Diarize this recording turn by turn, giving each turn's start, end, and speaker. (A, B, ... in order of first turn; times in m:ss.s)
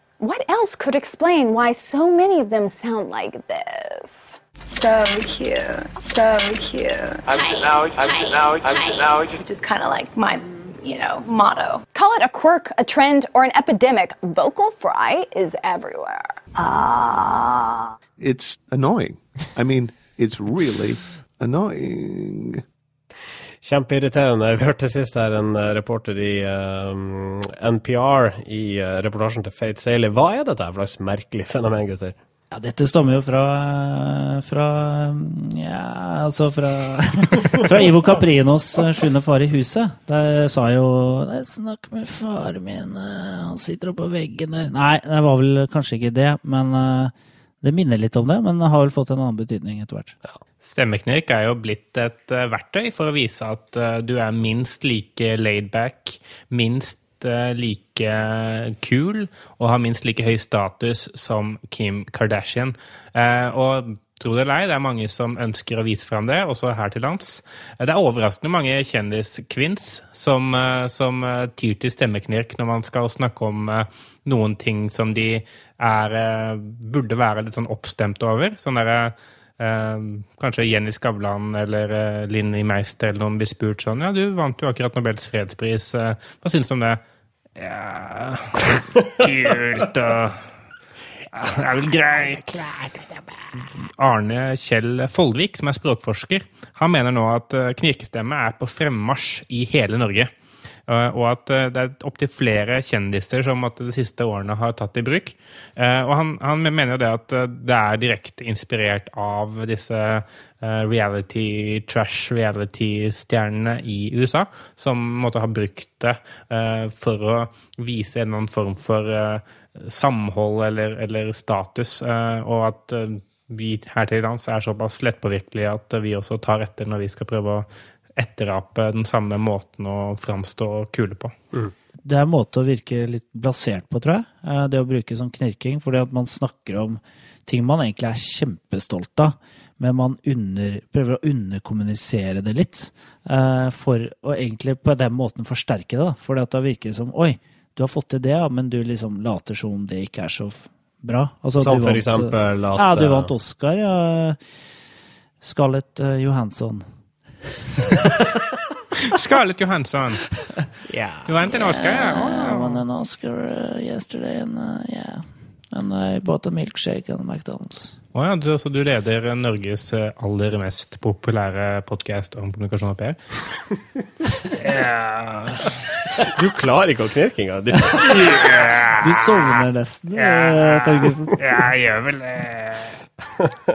0:00.2-0:04.4 A
0:04.7-0:11.8 B
0:11.9-0:16.4 A
0:16.6-0:17.9 B
0:18.2-0:22.6 C
0:23.6-0:32.2 D
0:32.5-0:50.2 E
0:50.6-1:27.0 F
1:27.6-1:30.5 F
1:31.3-1:33.1 F
1:33.6-1:40.3 F
1:40.9-2:11.3 F
2:12.0-2:34.4 E
2:31.6-2:33.3 D
2:35.4-2:36.8 E
2:39.0-2:40.3 F
2:41.3-2:42.8 F
2:41.8-2:48.0 E
2:48.2-2:53.2 F
2:54.4-2:55.8 F
2:56.2-2:58.6 D
2:58.1-2:59.1 F
2:59.0-3:01.4 E
3:00.2-3:03.0 F